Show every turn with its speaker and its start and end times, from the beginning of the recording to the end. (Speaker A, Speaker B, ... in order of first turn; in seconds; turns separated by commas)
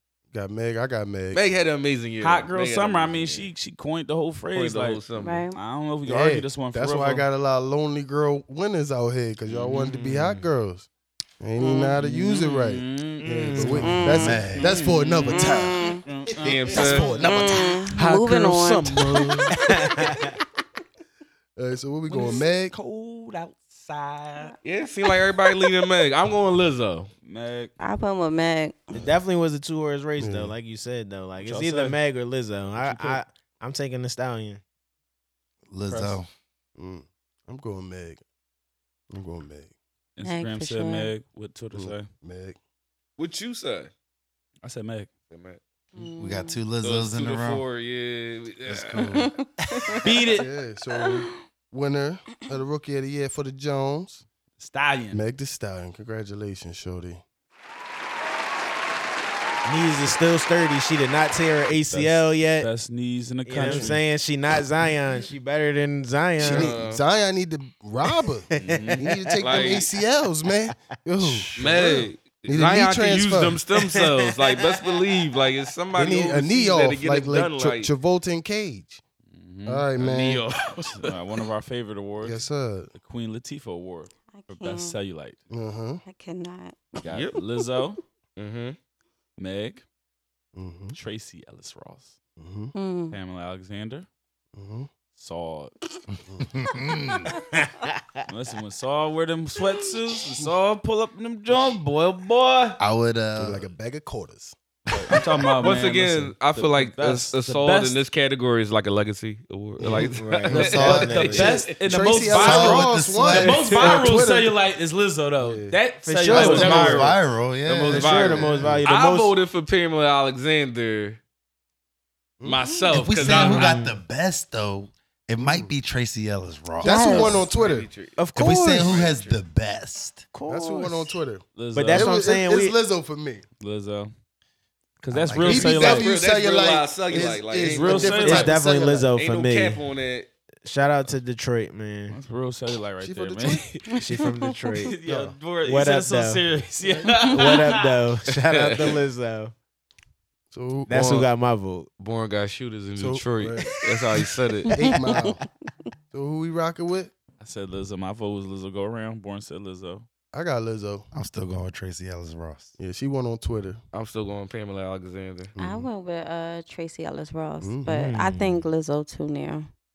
Speaker A: 0.3-1.4, Speaker B: 1.3-3.5, Speaker C: 2.2-7.2, Speaker B: 4.5-5.5, Speaker D: 5.2-5.6, Speaker A: 6.0-10.9, Speaker B: 9.5-10.4, Speaker A: 11.4-15.8, Speaker D: 11.6-12.0, Speaker C: 12.0-13.9, Speaker E: 13.2-14.0, Speaker D: 13.8-14.7, Speaker F: 14.2-14.6, Speaker C: 14.6-17.4, Speaker D: 15.3-16.0, Speaker B: 16.4-17.3, Speaker A: 16.7-17.8, Speaker D: 17.1-19.5, Speaker E: 18.0-18.7, Speaker E: 19.5-20.3, Speaker A: 21.6-22.7, Speaker C: 22.1-24.5, Speaker B: 24.6-27.1, Speaker C: 27.2-27.7, Speaker D: 27.8-29.0, Speaker E: 28.9-34.6, Speaker A: 30.2-30.5, Speaker C: 31.4-32.0, Speaker C: 32.8-33.2, Speaker F: 35.7-36.3, Speaker A: 36.8-38.2, Speaker A: 39.1-39.7, Speaker C: 40.2-42.1, Speaker D: 40.2-41.1, Speaker A: 41.7-42.6, Speaker B: 43.2-43.9, Speaker C: 44.6-45.1, Speaker B: 45.3-45.6, Speaker D: 45.9-46.7, Speaker F: 46.2-47.6, Speaker B: 46.8-49.2, Speaker A: 48.7-49.3, Speaker D: 49.0-50.4, Speaker C: 50.0-50.5, Speaker A: 50.4-54.2, Speaker D: 50.9-51.4, Speaker C: 54.6-55.2, Speaker A: 55.1-57.2, Speaker E: 59.6-62.7, Speaker C: 61.9-64.0, Speaker E: 63.5-66.7, Speaker A: 63.6-63.9, Speaker B: 66.4-67.0, Speaker A: 66.4-73.6, Speaker E: 68.5-69.8, Speaker C: 68.6-69.1, Speaker B: 69.4-69.9, Speaker F: 71.2-71.5, Speaker B: 71.5-77.9, Speaker E: 73.8-74.8, Speaker A: 75.9-79.0, Speaker C: 79.3-79.9, Speaker A: 79.7-80.5, Speaker B: 80.0-81.2, Speaker C: 80.9-82.4, Speaker A: 82.2-82.9, Speaker C: 82.9-85.4, Speaker D: 84.3-85.0, Speaker A: 85.5-86.0, Speaker D: 86.0-87.2, Speaker B: 87.0-87.4, Speaker C: 87.0-88.0, Speaker B: 88.3-88.8, Speaker C: 89.4-89.8, Speaker A: 90.5-91.0, Speaker C: 90.9-92.2, Speaker A: 92.4-92.7, Speaker D: 92.7-93.2, Speaker C: 93.1-94.1, Speaker A: 94.5-94.9, Speaker C: 95.2-95.7, Speaker F: 96.4-97.3, Speaker E: 97.5-98.2, Speaker C: 98.2-102.8, Speaker F: 102.8-103.7, Speaker A: 103.4-104.5, Speaker C: 104.9-108.0, Speaker B: 105.6-111.7, Speaker E: 109.8-111.6, Speaker F: 110.5-111.5, Speaker A: 110.5-111.0, Speaker C: 110.7-117.1, Speaker A: 111.8-114.5, Speaker F: 112.3-113.8, Speaker E: 113.4-114.0, Speaker A: 115.4-115.7, Speaker E: 116.0-117.1, Speaker F: 116.3-118.3, Speaker B: 116.4-117.1, Speaker B: 117.6-121.2, Speaker E: 117.9-119.3, Speaker A: 118.2-118.8, Speaker A: 122.4-122.7, Speaker B: 122.4-123.8, Speaker F: 122.9-127.4, Speaker E: 123.3-124.0, Speaker A: 125.4-125.7, Speaker D: 126.8-127.4, Speaker A: 126.8-127.9, Speaker B: 127.1-129.4, Speaker E: 128.2-129.0, Speaker F: 128.3-130.2, Speaker E: 130.3-131.1, Speaker A: 130.5-133.4, Speaker C: 131.6-132.1, Speaker E: 131.7-132.8, Speaker C: 133.6-134.1, Speaker C: 135.0-136.1, Speaker F: 135.1-135.8, Speaker A: 135.4-139.1, Speaker B: 135.6-138.6, Speaker C: 137.6-138.5, Speaker E: 138.2-139.8, Speaker B: 139.1-140.3, Speaker E: 140.6-142.2, Speaker C: 142.1-143.8, Speaker A: 143.0-143.8, Speaker D: 143.9-144.4, Speaker E: 143.9-145.0, Speaker C: 144.9-147.8, Speaker A: 145.1-145.3, Speaker E: 145.6-146.4, Speaker A: 146.8-147.1, Speaker D: 147.1-147.3, Speaker E: 147.3-149.5, Speaker B: 148.4-149.0, Speaker A: 150.5-151.3, Speaker E: 150.9-151.9, Speaker B: 152.0-154.9, Speaker A: 153.0-154.2, Speaker D: 154.7-155.5, Speaker A: 154.7-155.4, Speaker A: 156.1-157.1, Speaker C: 157.4-160.0, Speaker A: 160.3-161.1, Speaker F: 161.1-162.7, Speaker A: 162.8-163.8, Speaker B: 163.9-165.5, Speaker A: 165.6-165.9, Speaker D: 165.6-169.7, Speaker A: 167.6-167.9, Speaker E: 167.9-168.7